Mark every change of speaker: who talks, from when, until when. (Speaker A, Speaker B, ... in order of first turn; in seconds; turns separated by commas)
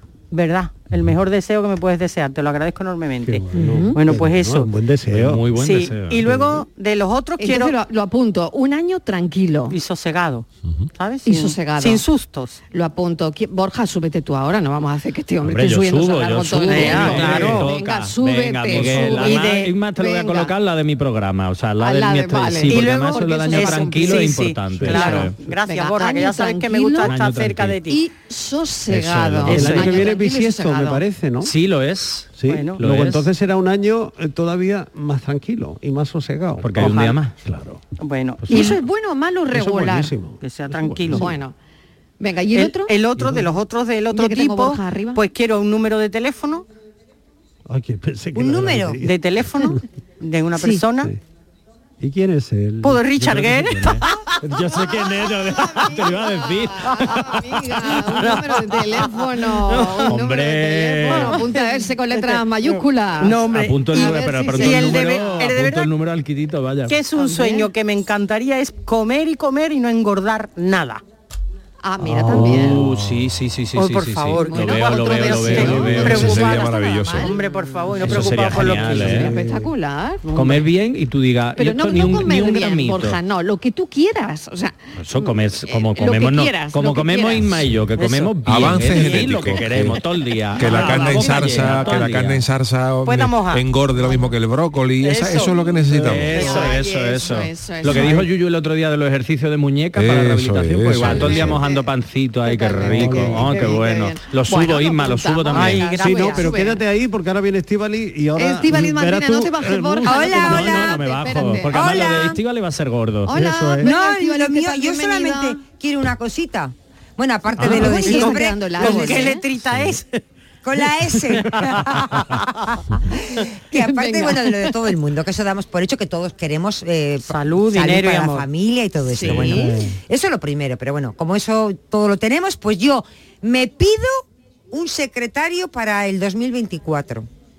Speaker A: 0.3-3.4, Speaker B: 3.2-5.4, Speaker C: 3.5-4.0, Speaker A: 3.9-4.7, Speaker D: 5.1-6.6, Speaker A: 5.5-7.7, Speaker C: 7.4-9.8, Speaker A: 9.7-12.6, Speaker C: 11.2-12.0, Speaker C: 12.7-20.5, Speaker D: 15.4-25.4, Speaker A: 16.7-17.7, Speaker A: 18.8-19.7, Speaker C: 21.8-24.3, Speaker A: 22.7-28.0, Speaker C: 24.9-27.1, Speaker D: 27.0-27.8, Speaker C: 27.9-31.0, Speaker B: 28.9-31.5, Speaker D: 29.4-29.9, Speaker D: 31.4-33.3, Speaker B: 32.4-37.8, Speaker A: 32.5-32.8, Speaker D: 36.6-37.3, Speaker A: 38.0-38.8, Speaker C: 38.5-40.1, Speaker B: 39.5-41.3, Speaker A: 40.4-41.3, Speaker C: 41.1-41.5, Speaker C: 42.2-42.9, Speaker A: 42.5-46.6, Speaker B: 43.2-43.5, Speaker C: 44.1-45.2, Speaker B: 47.6-49.8, Speaker E: 48.3-49.0, Speaker A: 49.0-51.1, Speaker B: 52.0-55.4, Speaker A: 52.8-54.0, Speaker D: 53.2-54.0, Speaker D: 54.5-57.4, Speaker C: 55.6-65.4, Speaker A: 59.7-60.0, Speaker D: 59.8-61.4, Speaker A: 61.1-65.9, Speaker D: 63.5-67.0, Speaker A: 66.9-71.0, Speaker C: 67.1-67.7, Speaker C: 71.8-72.8, Speaker B: 72.0-72.8, Speaker D: 72.1-76.4, Speaker A: 73.7-79.2, Speaker C: 74.4-77.3, Speaker F: 76.0-77.3, Speaker D: 78.0-79.3, Speaker C: 78.8-80.2, Speaker B: 79.0-79.7, Speaker A: 80.2-80.6, Speaker D: 80.3-83.2, Speaker C: 81.6-87.5, Speaker D: 85.0-92.4, Speaker A: 88.0-89.6, Speaker F: 88.5-90.0, Speaker F: 90.6-96.3, Speaker A: 93.0-93.7, Speaker A: 95.0-96.8, Speaker D: 95.9-105.9, Speaker C: 96.3-98.1, Speaker B: 97.9-98.2, Speaker F: 100.0-101.6, Speaker C: 101.0-101.8, Speaker C: 102.4-106.8, Speaker B: 102.8-103.4, Speaker A: 105.5-106.5, Speaker B: 106.0-111.0, Speaker C: 108.4-112.1, Speaker E: 110.0-111.0, Speaker D: 110.5-113.3, Speaker E: 111.7-112.4, Speaker C: 113.3-115.6, Speaker B: 113.3-113.9, Speaker E: 113.8-119.4, Speaker C: 117.6-119.4, Speaker A: 117.7-120.2, Speaker E: 120.6-122.4, Speaker E: 123.4-137.3, Speaker C: 123.7-124.6, Speaker A: 127.2-128.5, Speaker C: 129.1-129.7, Speaker A: 129.2-129.6, Speaker B: 129.4-130.0